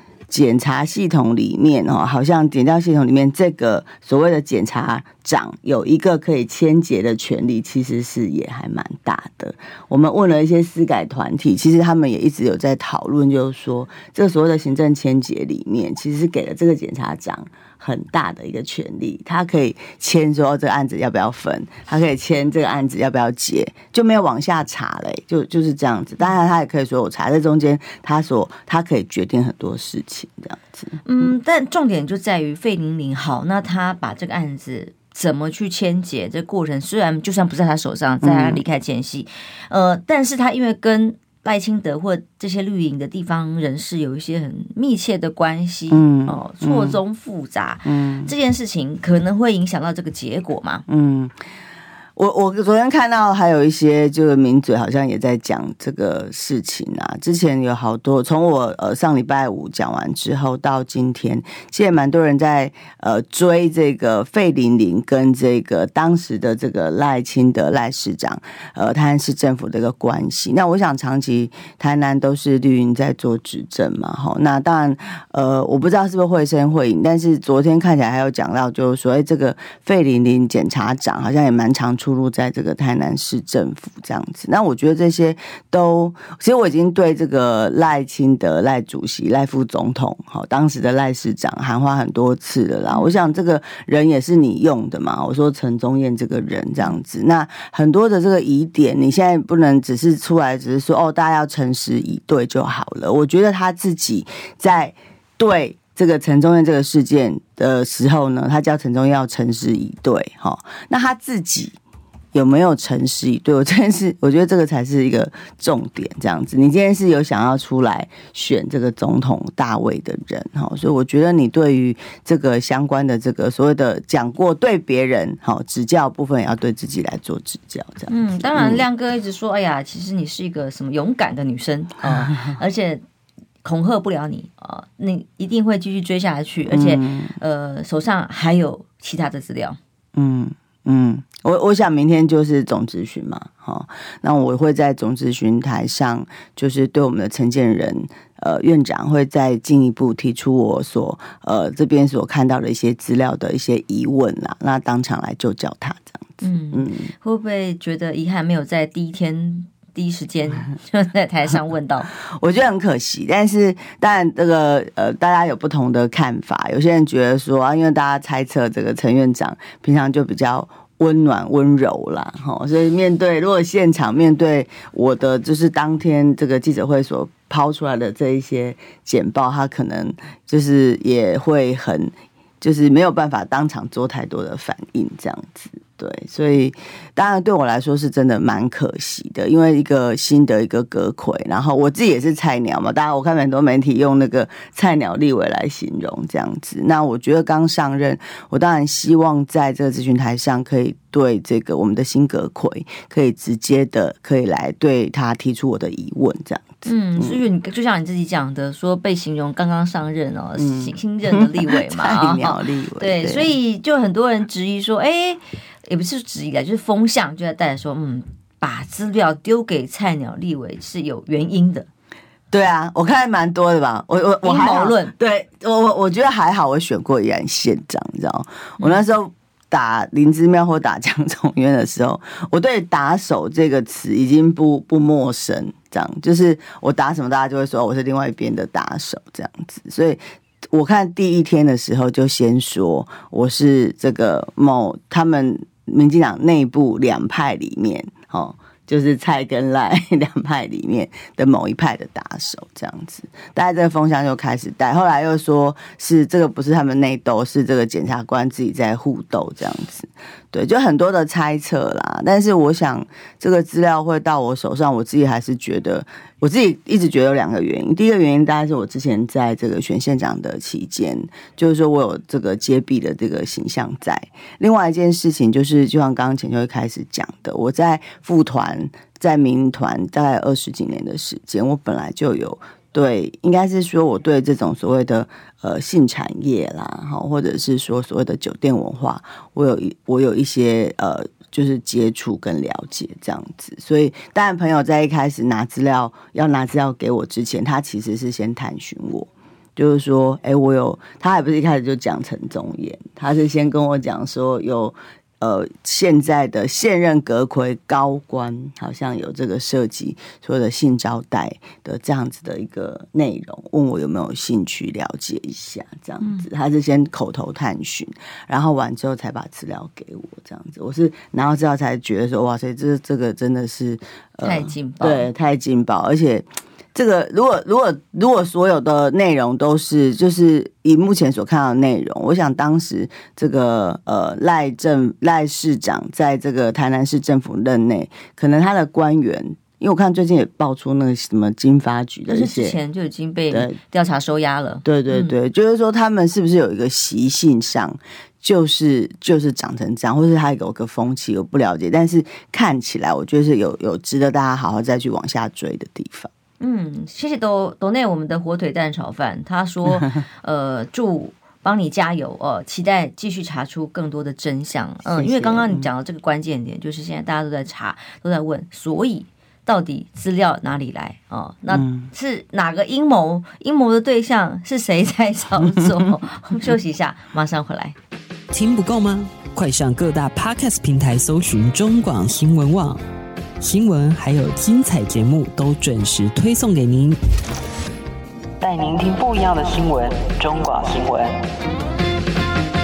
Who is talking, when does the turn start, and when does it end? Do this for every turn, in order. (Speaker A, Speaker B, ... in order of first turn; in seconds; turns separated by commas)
Speaker A: 0.3-31.3, Speaker B: 31.1-50.9, Speaker A: 38.2-38.6, Speaker A: 45.9-47.0, Speaker A: 47.9-48.3, Speaker A: 50.9-51.4, Speaker A: 52.2-111.8, Speaker A: 112.3-128.8, Speaker B: 128.1-133.0, Speaker B: 133.6-139.8, Speaker A: 136.7-137.3, Speaker A: 140.2-157.1, Speaker B: 156.4-162.1, Speaker A: 162.3-207.4, Speaker B: 206.8-221.9, Speaker A: 210.6-213.5, Speaker A: 222.5-240.2, Speaker B: 224.4-225.1, Speaker A: 240.7-342.8, Speaker B: 324.4-325.3, Speaker B: 342.3-345.3, Speaker A: 343.5-343.8, Speaker A: 344.9-356.3, Speaker B: 356.6-377.9, Speaker A: 365.1-365.9, Speaker A: 371.7-372.1, Speaker A: 375.6-376.1, Speaker C: 378.5-383.0, Speaker C: 383.6-387.2, Speaker C: 388.6-391.3